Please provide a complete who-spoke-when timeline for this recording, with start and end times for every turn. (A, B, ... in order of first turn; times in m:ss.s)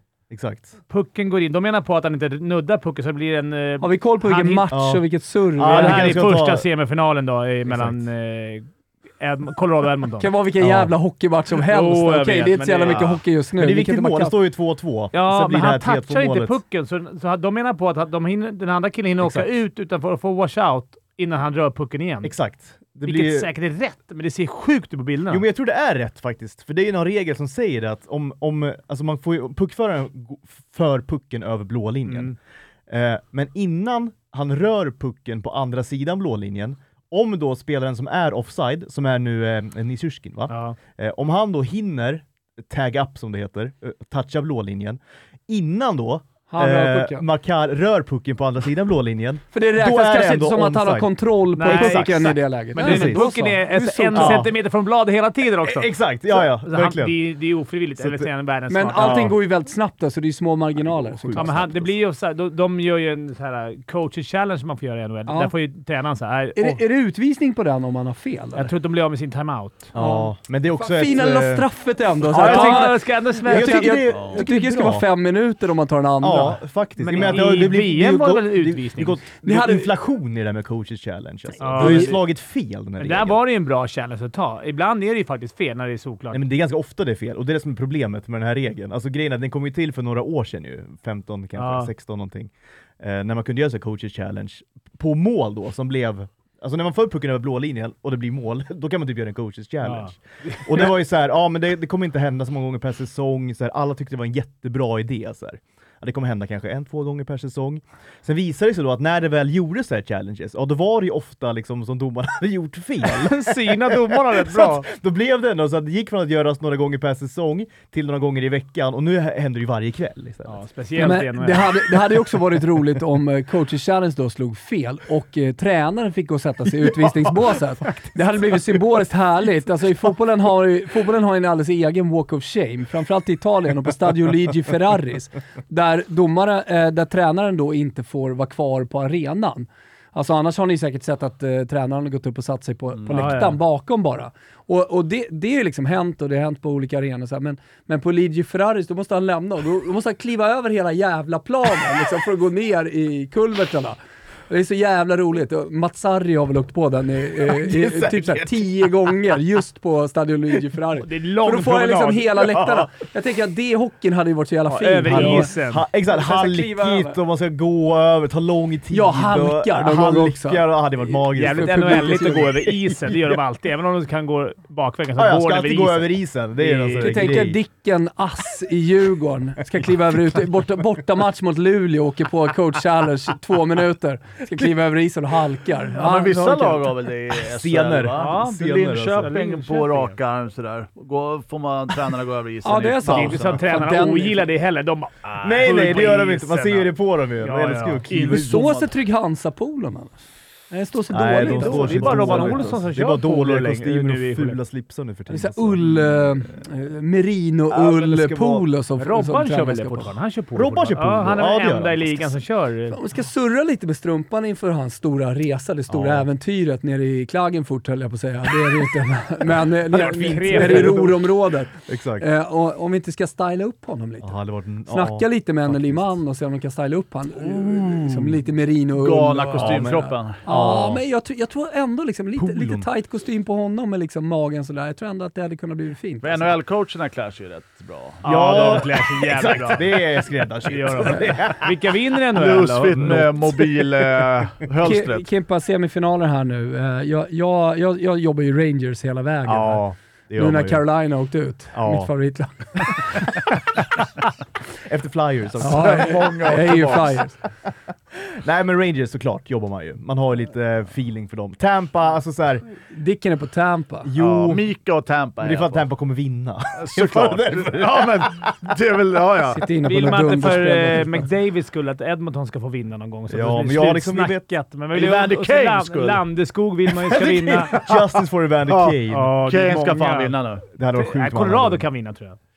0:00.3-0:00.8 A
0:00.9-0:04.7 B
0:03.8-0:06.2 C
0:04.7-0:06.7 A
0:05.6-0:10.3 B
0:07.7-0:08.0 A
0:10.2-0:14.4 C
0:10.6-0:10.9 A
0:11.7-0:13.2 B
0:12.9-0:16.6 A
0:15.1-0:22.4 B
0:19.2-0:19.5 A
0:22.2-0:23.5 A
0:23.0-0:25.4 B
0:25.3-0:53.3 A
0:32.1-0:32.4 B
0:40.5-0:40.8 B
0:46.5-0:47.2 C
0:49.5-0:54.5 C
0:51.5-0:59.4 B
0:54.2-0:54.5 A
0:55.6-0:57.2 A
0:58.0-0:58.3 A
0:58.7-1:01.6 C
0:59.0-0:59.4 A
1:00.8-1:02.0 A
1:01.3-1:06.8 B
1:05.3-1:05.5 C
1:06.6-1:08.7 C
1:08.6-1:09.9 B
1:09.9-1:15.1 A
1:10.0-1:17.5 C
1:12.3-1:14.0 B
1:14.1-1:14.4 D
1:16.2-1:23.4 A
1:17.0-1:19.2 B
1:19.4-1:19.9 C
1:21.6-1:22.3 B
1:21.8-1:22.2 C
1:23.0-1:26.4 B
1:26.3-2:00.6 A
1:31.6-1:31.9 B
1:39.8-1:40.9 B
1:53.1-1:54.9 B
2:00.5-2:01.7 B
2:01.0-2:45.5 C
2:23.0-2:23.3 D
2:23.1-2:23.6 B
2:37.6-2:38.6 A
2:41.0-2:42.4 B
2:42.5-2:42.9 A
2:44.7-2:45.8 B
2:45.0-2:53.4 A
2:46.1-2:47.2 C
2:48.9-2:52.5 C
2:51.4-2:57.5 B
2:55.2-2:57.6 A
2:57.0-3:06.9 C
3:05.9-3:13.6 D
3:07.4-3:09.3 A
3:08.2-3:10.2 B
3:12.6-3:14.5 C
3:13.1-3:18.0 B
3:15.4-3:18.6 A
3:15.8-3:16.2 D
3:18.1-3:18.9 D
3:18.2-3:22.9 C
3:21.1-3:26.6 A
3:21.3-3:24.6 B
3:25.3-3:30.2 C
3:27.7-3:28.6 A
3:29.0-3:33.0 B
3:30.6-3:32.3 A
3:32.9-3:56.6 C
3:35.9-3:36.3 A
3:39.9-3:41.4 A
3:39.9-3:41.1 B
3:41.9-3:42.2 A
3:44.2-3:46.2 A
3:47.4-3:48.4 A
3:48.9-3:50.4 D
3:49.6-3:51.0 A
3:52.4-3:52.9 A
3:56.2-3:58.8 D
3:58.2-4:01.7 A
3:58.2-4:00.1 B
4:00.6-4:03.3 B
4:02.3-4:05.3 D
4:03.0-4:03.7 A
4:04.8-4:13.5 C
4:09.4-4:10.8 A
4:11.7-4:12.1 A
4:14.8-4:16.1 A
4:15.6-4:17.4 D
4:15.6-4:17.5 C
4:18.4-4:22.7 A
4:22.9-4:24.1 C
4:24.0-4:24.7 A
4:24.2-4:25.9 D
4:25.4-4:28.4 A
4:26.8-4:29.6 D
4:29.5-4:31.3 C
4:29.8-4:37.7 B
4:33.3-4:34.5 A
4:34.9-4:36.2 D
4:37.1-4:39.3 A
4:37.8-4:38.1 D
4:38.7-4:40.6 D
4:39.1-4:42.4 B
4:40.8-4:41.8 A